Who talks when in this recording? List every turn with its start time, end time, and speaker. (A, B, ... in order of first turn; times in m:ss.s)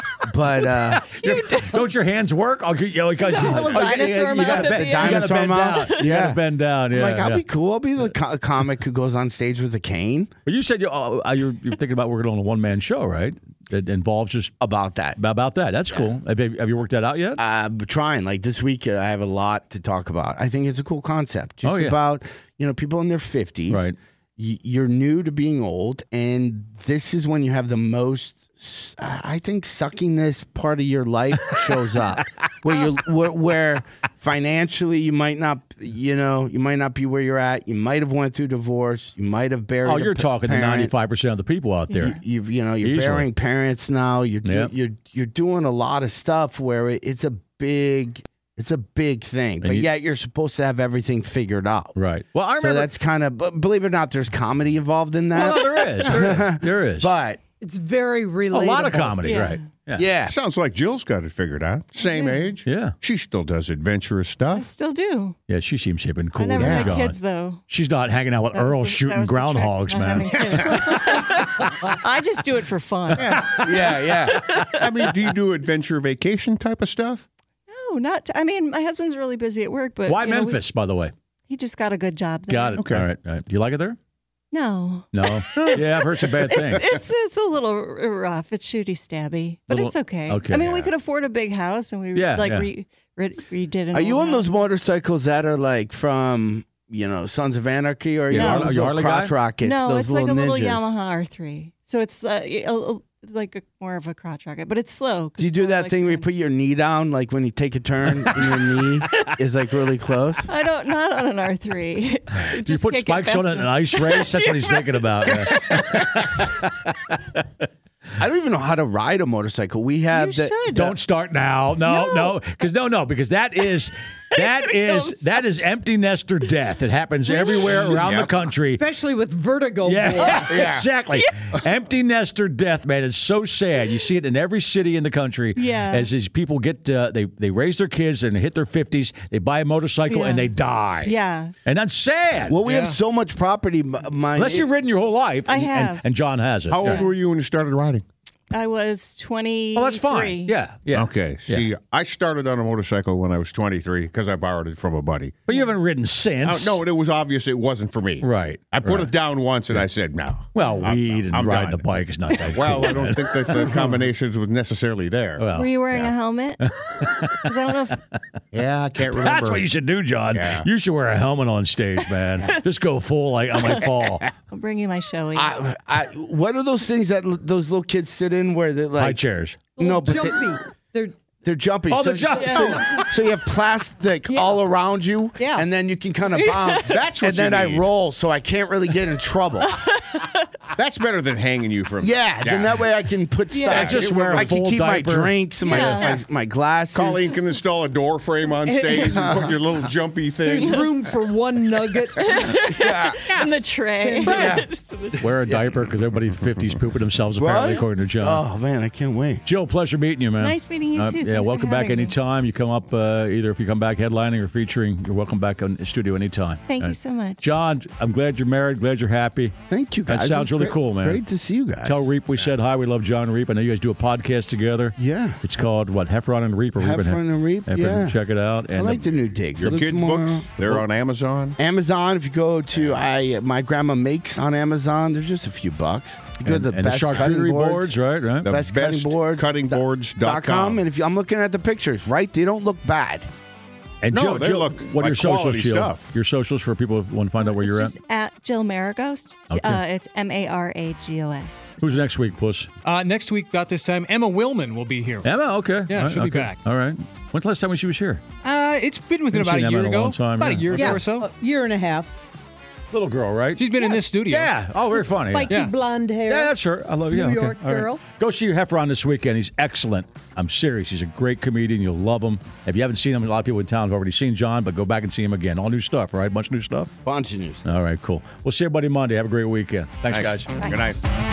0:00.2-0:01.2 A
0:01.1-0:01.9 B
0:01.4-0:07.4 C
0:03.2-0:06.1 B
0:03.6-0:03.8 D
0:04.3-0:10.3 A
0:10.5-0:14.5 C
0:14.6-0:15.2 A
0:15.2-0:17.4 C
0:17.4-0:40.9 A
0:21.6-0:22.0 C
0:23.7-0:24.0 C
0:39.8-0:42.2 C
0:41.9-0:52.0 A
0:42.8-0:43.3 C
0:44.4-0:44.7 C
0:49.6-0:49.9 C
0:52.0-0:52.9 C
0:52.6-0:57.4 A
0:55.3-0:57.1 C
0:57.6-0:59.2 E
0:58.5-1:00.1 C
0:59.2-0:59.6 B
1:00.0-1:00.4 A
1:00.3-1:04.7 D
1:02.1-1:02.4 E
1:02.6-1:03.0 C
1:04.5-1:05.4 B
1:05.5-1:07.2 C
1:06.4-1:07.6 B
1:06.6-1:07.0 D
1:07.7-1:11.4 C
1:08.5-1:13.6 B
1:13.1-1:14.3 C
1:13.2-1:14.0 D
1:13.6-1:14.4 A
1:14.3-1:15.1 B
1:14.7-1:17.3 D
1:17.7-1:20.6 B
1:20.1-1:21.1 C
1:21.5-1:22.8 B
1:22.5-1:24.0 C
1:22.8-1:23.1 D
1:24.5-1:34.5 B
1:25.1-1:27.0 C
1:29.7-1:30.9 C
1:32.2-1:32.7 C
1:33.9-1:40.9 A
1:38.3-1:39.3 C
1:38.3-1:38.8 B
1:39.6-1:46.3 B
1:45.4-1:50.5 A
1:50.5-1:56.0 B
1:52.4-1:57.4 C
1:58.2-2:00.8 A
2:00.1-2:00.9 B
2:00.7-2:08.8 C
2:01.9-2:02.4 B
2:04.4-2:05.4 B
2:07.4-2:07.7 B
2:07.7-2:08.4 D
2:08.6-2:10.5 E
2:09.8-2:22.6 C
2:10.5-2:10.9 A
2:15.6-2:16.1 B
2:20.1-2:20.5 B
2:21.0-2:21.5 B
2:22.5-2:24.7 A
2:22.6-2:23.0 F
2:24.4-2:27.1 C
2:25.5-2:26.0 B
2:26.7-2:28.1 D
2:26.8-2:27.1 B
2:28.5-2:30.6 B
2:29.8-2:31.7 C
2:30.9-2:35.4 D
2:35.5-2:36.8 C
2:36.4-2:41.8 D
2:38.2-2:39.1 C
2:40.5-2:44.0 C
2:42.4-2:46.1 D
2:45.4-2:45.7 C
2:45.5-2:46.6 B
2:46.6-2:47.5 C
2:47.3-2:48.0 B
2:48.5-2:49.6 D
2:49.0-2:54.3 C
2:50.3-2:50.7 D
2:54.5-2:55.5 B
2:55.4-2:59.2 A
2:59.0-2:59.6 C
2:59.8-3:00.6 A
2:59.8-3:01.2 E
3:01.4-3:09.8 A
3:01.9-3:03.0 C
3:02.4-3:02.7 B
3:04.3-3:04.6 E
3:05.4-3:05.7 E
3:06.3-3:07.0 B
3:06.8-3:07.9 D
3:09.7-3:10.5 B
3:10.8-3:12.9 D
3:12.0-3:17.4 A
3:13.5-3:13.9 B
3:13.7-3:15.9 C
3:13.7-3:14.4 D
3:15.6-3:16.2 B
3:16.9-3:21.0 D
3:18.7-3:19.2 E
3:19.0-3:19.6 A
3:20.4-3:22.6 E
3:22.2-3:25.3 B
3:22.7-3:23.2 A
3:23.9-3:24.7 E
3:24.3-3:24.7 A
3:25.2-3:28.4 C
3:25.4-3:25.7 A
3:27.4-3:29.4 A
3:29.4-3:39.6 C
3:30.4-3:32.2 B
3:36.7-3:37.4 B
3:39.7-3:42.1 A
3:40.1-3:41.2 C
3:41.8-3:49.0 C
3:45.0-3:45.4 A
3:46.8-3:48.2 A
3:48.8-3:50.8 A
3:49.6-3:51.6 D
3:51.6-4:03.3 A
3:56.4-3:58.5 C
3:58.4-4:00.8 D
4:04.0-4:08.0 C
4:04.1-4:06.0 D
4:07.4-4:11.9 B
4:09.5-4:09.8 C
4:11.8-4:12.7 C
4:12.8-4:15.3 F
4:15.2-4:18.2 C
4:15.9-4:16.6 F
4:18.4-4:21.3 F
4:19.3-4:21.0 C
4:20.7-4:22.2 E
4:22.9-4:23.6 C
4:23.6-4:24.6 F
4:23.8-4:24.1 E
4:24.3-4:25.6 C
4:24.9-4:26.6 E
4:25.5-4:25.7 F
4:26.2-4:36.9 C
4:27.1-4:28.0 E
4:37.0-4:37.6 A
4:37.6-4:40.5 C
4:40.1-4:41.0 D